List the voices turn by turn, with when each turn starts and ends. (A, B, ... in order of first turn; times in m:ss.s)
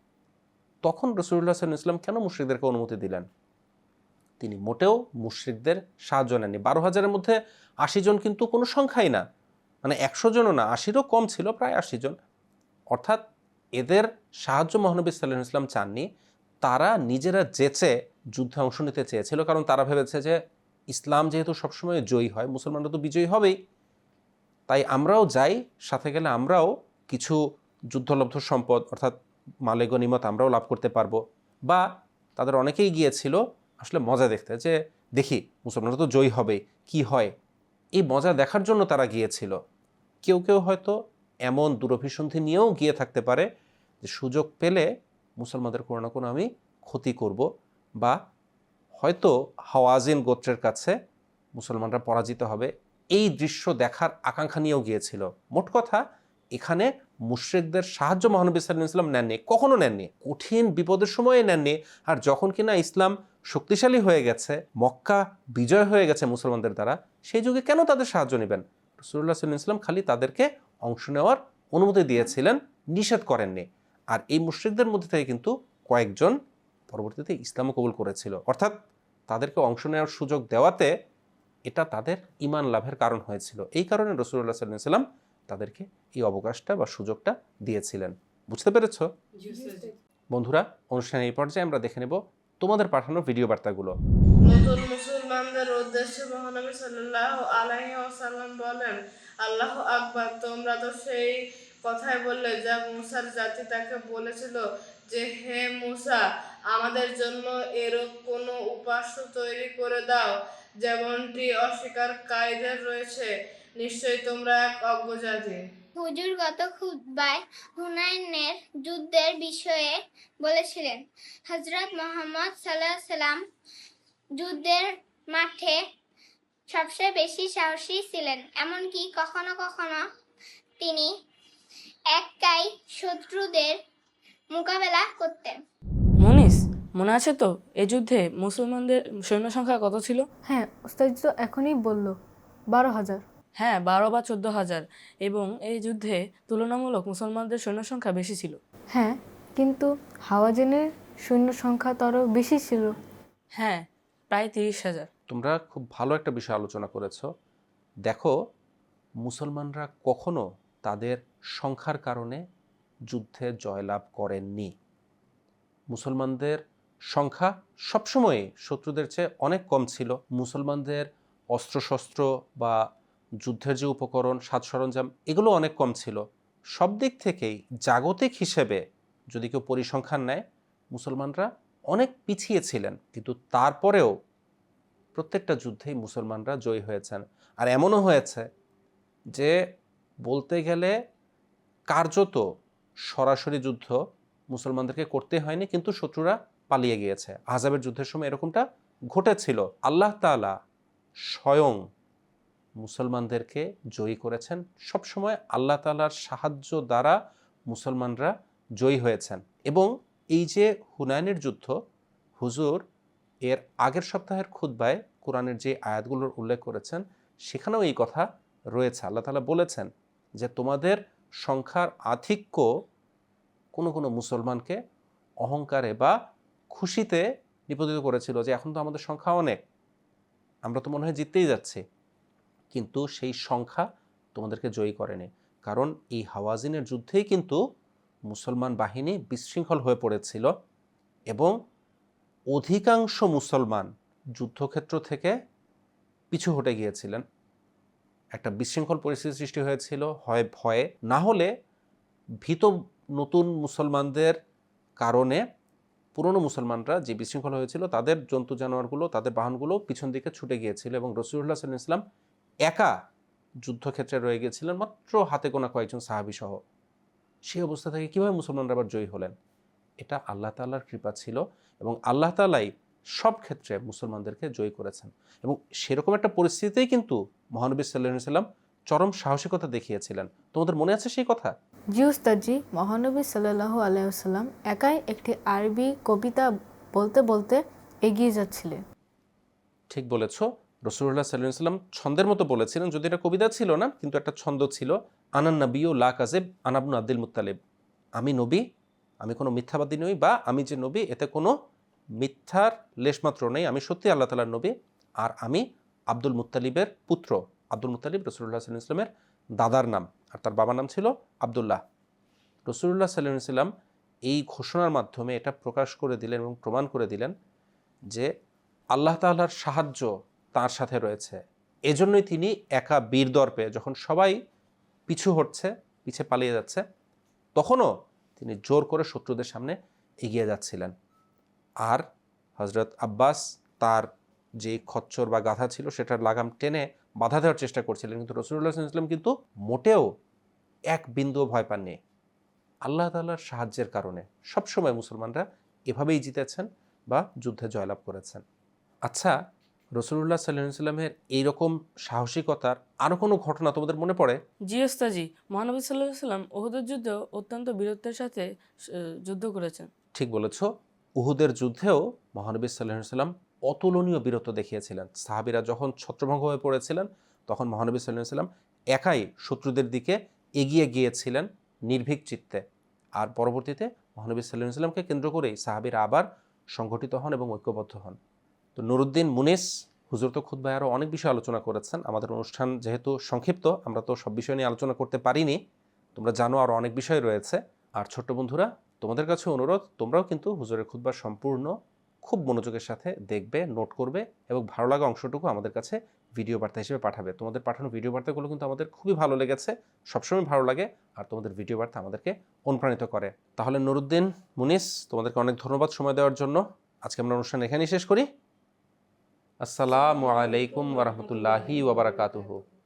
0:00.8-0:03.2 A
0:04.4-0:09.2 A
0:09.8-0:12.2 A
0:12.9-0:13.2 A
0:13.8-0:16.0 A
0:16.6-0:20.4 A
0:20.9-0:23.6 A
0:24.7-0:27.4 A
0:27.9-0:29.2 A
0:29.7-0:31.8 A
0:32.4-0:37.3 A
0:38.0-0:39.6 A
0:40.2-0:40.9 A
0:41.4-0:43.5 A
0:44.0-0:44.8 A
0:45.4-0:47.4 A
0:48.9-0:50.9 A
0:51.5-0:56.0 A
0:56.6-1:16.4 A
1:16.9-1:18.8 A
1:19.3-1:20.9 A
1:21.7-1:29.1 A
1:29.5-1:29.9 B
1:30.3-1:34.0 A
1:34.4-1:55.6 C
1:56.0-2:03.4 D
2:04.4-2:05.8 D
2:06.7-2:10.0 D
2:10.8-2:11.1 D
2:12.1-2:13.8 D
2:14.5-2:15.6 D
2:16.2-2:20.3 E
2:20.4-2:22.2 B
2:22.7-2:23.2 B
2:23.6-2:28.6 E
2:28.9-2:33.0 B
2:33.6-2:35.1 E
2:35.3-2:37.3 A
2:38.1-2:38.3 A
2:39.2-2:42.4 A
2:43.1-2:44.7 A
2:45.9-2:52.8 A
2:53.4-2:56.2 A
2:56.7-3:04.1 A
3:05.1-3:08.5 A
3:10.2-3:10.9 A
3:11.9-3:12.4 A
3:13.1-3:14.0 A
3:14.5-3:20.5 A
3:21.3-3:21.8 A
3:22.8-3:27.2 A
3:27.7-3:31.7 A
3:32.4-3:32.8 A
3:33.4-3:39.9 A
3:40.4-3:42.7 A
3:43.7-3:44.8 A
3:45.4-3:46.1 A
3:46.7-3:49.6 A
3:50.6-3:51.8 A
3:52.7-3:57.6 A
3:58.3-4:00.5 A
4:02.5-4:05.3 A
4:06.3-4:07.2 A
4:08.3-4:11.5 A
4:12.4-4:14.3 A
4:15.0-4:15.4 A
4:16.1-4:22.0 A
4:22.6-4:22.9 A
4:23.6-4:26.6 A
4:27.5-4:29.3 A
4:30.0-4:41.5 A
4:41.9-4:48.8 B
4:49.9-4:57.6 A
4:58.2-4:58.6 A
4:59.2-5:01.5 A
5:02.2-5:11.8 A
5:12.6-5:13.7 A
5:14.3-5:17.3 A
5:18.9-5:24.4 A
5:25.1-5:26.8 A
5:27.6-5:30.9 A
5:32.6-5:34.1 A
5:34.6-5:40.1 A
5:40.9-5:42.0 A
5:42.8-5:48.4 A
5:49.0-5:49.3 A
5:50.0-5:54.4 A
5:54.6-5:58.4 E
5:59.2-5:59.9 E
6:00.1-6:12.6 A
6:13.2-6:18.2 A
6:18.8-6:25.6 A
6:26.1-6:31.7 A
6:32.2-6:48.3 A
6:49.6-6:52.6 A